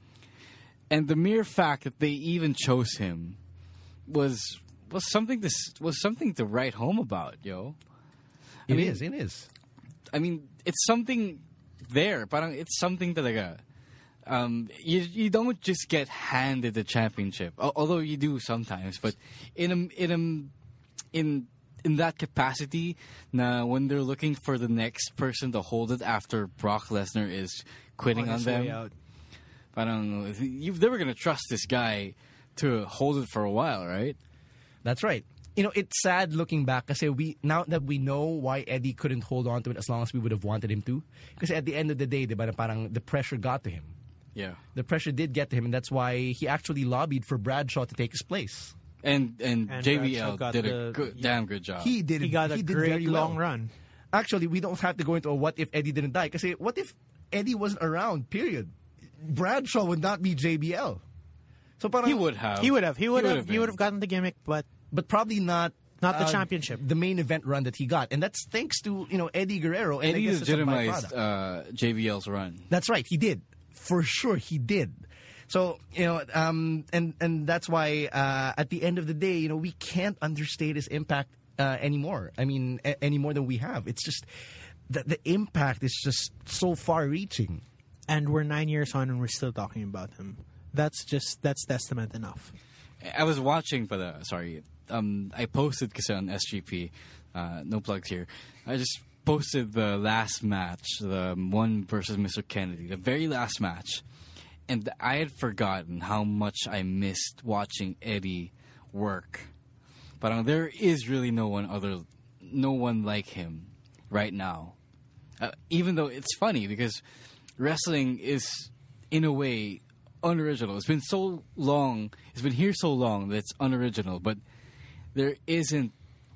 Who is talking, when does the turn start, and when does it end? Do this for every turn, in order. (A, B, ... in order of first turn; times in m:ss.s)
0:00.9-0:03.4 A
0:04.1-0:07.8 A
0:08.7-0:09.5 B
0:08.7-0:09.0 A
0:10.1-0:13.6 A
0:14.2-0:20.5 A
0:21.1-0:28.8 A
0:28.1-0:28.9 C
0:29.7-0:34.2 A
0:34.8-0:43.9 B
0:44.3-0:44.6 A
0:44.7-0:48.7 B
0:49.0-0:51.9 A
0:49.7-0:51.3 C
0:51.8-0:53.4 B
0:52.2-0:53.7 C
0:54.1-1:01.0 B
1:01.8-1:02.2 B
1:02.0-1:03.8 A
1:02.6-1:04.6 C
1:04.9-1:11.1 B
1:06.0-1:06.8 C
1:10.0-1:12.6 A
1:12.7-1:24.3 B
1:24.9-1:27.6 B
1:28.1-1:32.5 C
1:33.0-1:44.0 A
1:44.7-1:49.5 A
1:50.2-1:54.7 A
1:55.4-1:57.0 A
1:57.6-2:04.4 A
2:05.1-2:05.9 A